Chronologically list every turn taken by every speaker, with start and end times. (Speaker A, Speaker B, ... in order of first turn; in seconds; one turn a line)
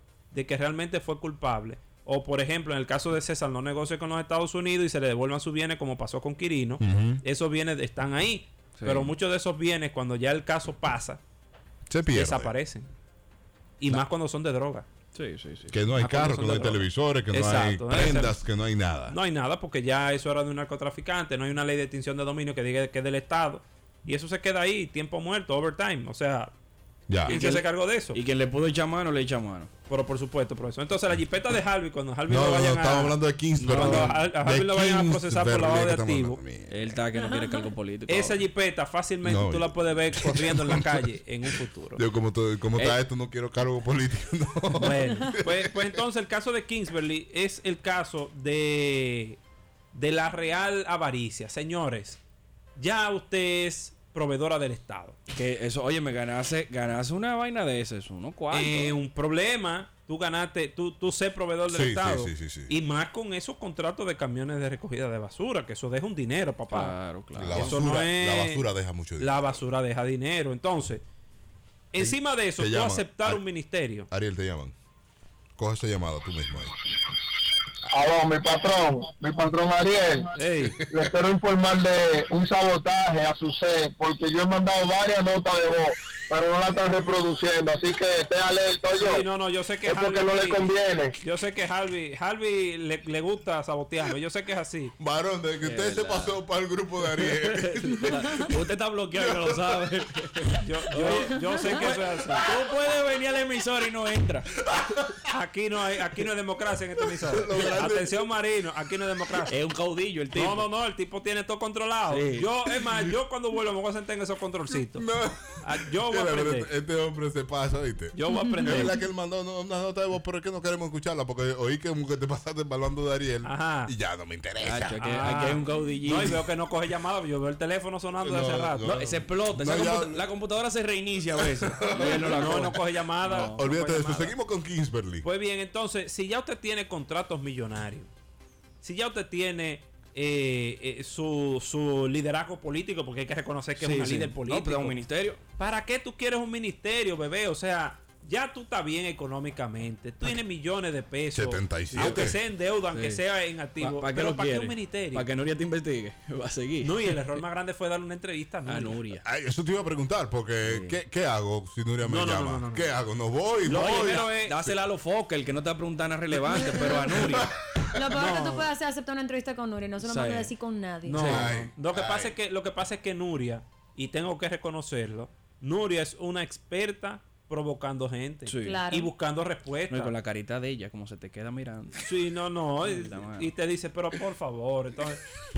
Speaker A: 0.3-11.2
Speaker B: 6.8-7.2
Speaker C: 8.8-9.1
Speaker B: 11.9-12.5
Speaker A: 12.1-12.9
Speaker A: 13.8-14.9
Speaker C: 15.1-15.8
Speaker B: 15.7-19.2
Speaker A: 16.0-18.4
Speaker A: 19.1-26.5
Speaker B: 27.1-27.4
Speaker A: 27.2-28.2
Speaker C: 27.2-29.7
Speaker A: 29.9-36.4
Speaker B: 32.3-36.9
Speaker C: 33.7-34.2
Speaker C: 36.7-38.4
Speaker A: 38.1-42.0
Speaker B: 39.2-41.0
Speaker B: 42.0-45.7
Speaker A: 44.8-49.4
Speaker A: 49.9-52.2
Speaker A: 52.8-55.2
Speaker C: 55.3-59.0
Speaker A: 58.5-67.0
Speaker B: 61.7-62.7
Speaker C: 66.7-67.8
Speaker B: 67.4-69.6
Speaker A: 67.5-68.7
Speaker A: 69.2-71.0
Speaker A: 71.9-74.1
Speaker B: 72.0-73.4
Speaker B: 74.1-74.7
Speaker B: 75.6-76.7
Speaker D: 77.9-80.3
Speaker A: 80.4-80.8
Speaker D: 80.9-89.3
Speaker A: 89.0-90.7
Speaker D: 89.8-91.2
Speaker A: 91.2-95.0
Speaker B: 95.0-98.5
Speaker C: 95.6-96.4
Speaker C: 97.1-104.5
Speaker B: 99.2-99.6
Speaker A: 100.6-102.5
Speaker B: 104.7-105.2
Speaker A: 105.3-109.5
Speaker B: 107.2-108.2
Speaker C: 109.5-110.7
Speaker A: 110.3-115.1
Speaker C: 112.1-112.5
Speaker B: 115.0-125.5
Speaker A: 115.6-116.7
Speaker A: 118.1-119.0
Speaker E: 118.3-118.8
Speaker A: 123.4-123.9
Speaker C: 124.6-126.4
Speaker A: 125.0-129.1
Speaker B: 128.2-130.3
Speaker C: 128.9-133.6
Speaker B: 131.4-132.7
Speaker A: 132.0-134.4
Speaker B: 133.6-135.2
Speaker A: 135.2-138.1
Speaker A: 138.8-145.0
Speaker C: 143.8-145.4
Speaker A: 145.6-155.3
Speaker B: 151.3-152.4
Speaker C: 151.9-152.3
Speaker C: 152.9-153.2
Speaker C: 153.8-157.2
Speaker A: 156.8-159.0
Speaker C: 158.7-159.2
Speaker B: 159.2-164.8
Speaker C: 160.7-161.0
Speaker A: 162.1-162.9
Speaker A: 163.7-164.6
Speaker C: 163.7-167.5
Speaker E: 166.7-167.0
Speaker E: 168.0-171.2
Speaker A: 168.1-168.7
Speaker C: 170.0-170.6
Speaker A: 171.1-180.2
Speaker C: 171.1-171.6
Speaker B: 171.2-172.3
Speaker C: 178.5-178.8
Speaker E: 178.6-179.1
Speaker C: 179.9-182.1
Speaker A: 182.0-185.2
Speaker C: 182.8-183.5